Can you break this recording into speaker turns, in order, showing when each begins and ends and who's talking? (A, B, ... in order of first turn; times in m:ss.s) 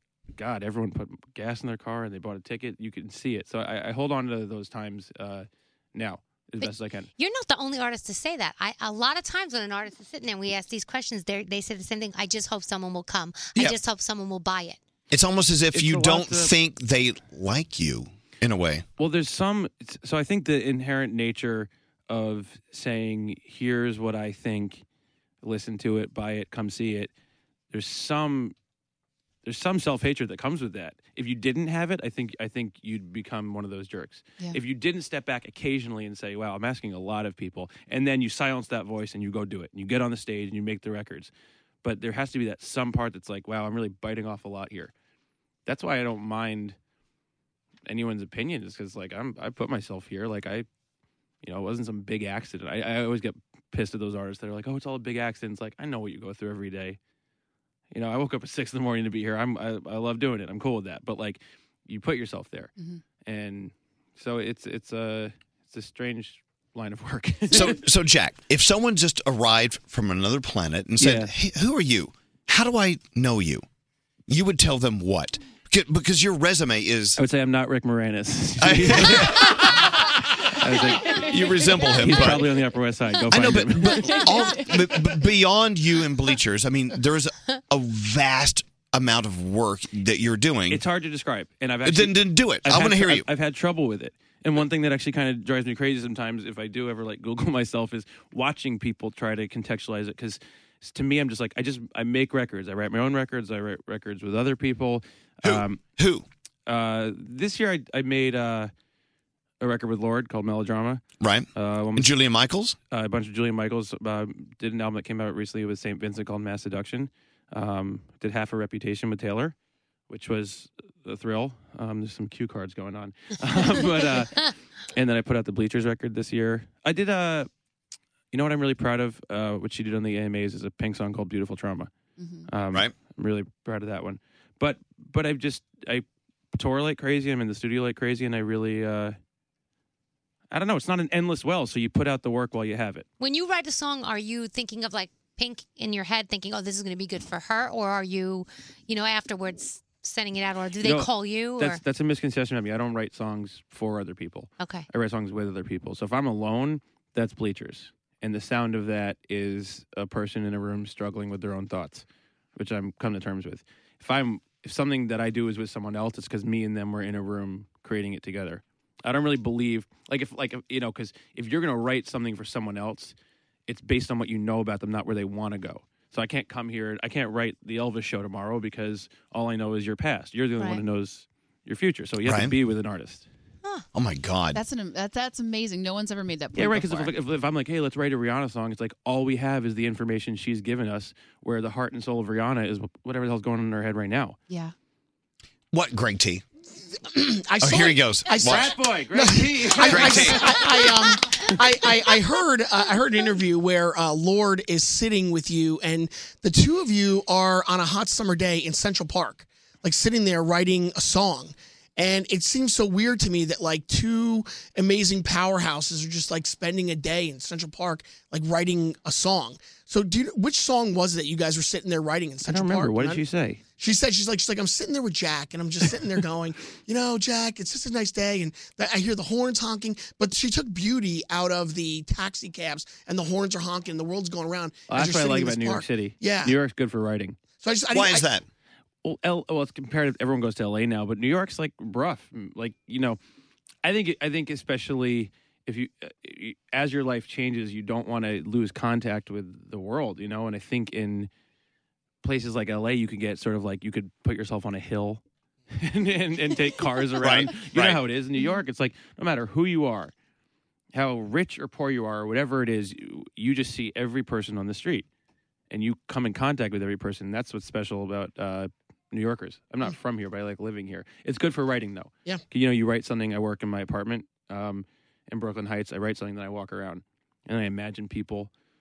0:00.4-0:07.1 A
0:06.6-0:14.8 B
0:15.1-0:18.8 C
0:15.7-0:16.6 A
0:19.0-0:24.8 A
0:25.4-0:27.1 A
0:27.7-0:28.5 A
0:29.4-0:41.3 A
0:41.8-0:44.9 A
0:45.6-0:46.8 A
0:47.9-0:50.6 A
0:51.4-0:57.0 A
0:57.9-1:07.8 A
1:07.5-1:13.6 C
1:11.0-1:11.3 A
1:14.3-1:17.2 C
1:17.2-1:19.9 A
1:18.6-1:19.6 C
1:20.6-1:24.2 A
1:21.1-1:22.5 C
1:23.3-1:30.8 C
1:24.0-1:24.7 D
1:30.7-1:45.8 A
1:31.8-1:33.2 C
1:45.4-1:46.2 C
1:46.7-1:48.7 A
1:49.6-1:51.0 A
1:51.2-1:52.8 C
1:51.6-1:52.1 A
1:52.9-1:59.5 A
2:00.1-2:07.5 A
2:08.3-2:11.9 A
2:12.2-2:12.5 D
2:12.5-2:19.2 A
2:20.5-2:23.0 A
2:23.2-2:31.8 B
2:30.8-2:42.0 A
2:34.6-2:34.9 B
2:42.6-2:53.1 A
2:53.7-3:03.3 A
3:02.2-3:02.5 C
3:03.9-3:04.6 C
3:04.5-3:07.1 D
3:06.5-3:14.4 A
3:15.7-3:16.4 C
3:17.2-3:43.2 E
3:17.6-3:18.7 C
3:18.4-3:20.8 A
3:19.9-3:20.4 C
3:42.4-3:43.6 A
3:43.8-3:56.6 E
3:54.9-3:57.4 A
3:57.5-3:58.3 E
3:57.9-3:58.4 C
3:59.0-4:03.2 A
4:03.8-4:11.3 A
4:12.2-4:20.1 A
4:17.2-4:18.0 C
4:18.4-4:18.6 D
4:20.9-4:25.0 A
4:25.7-4:38.5 A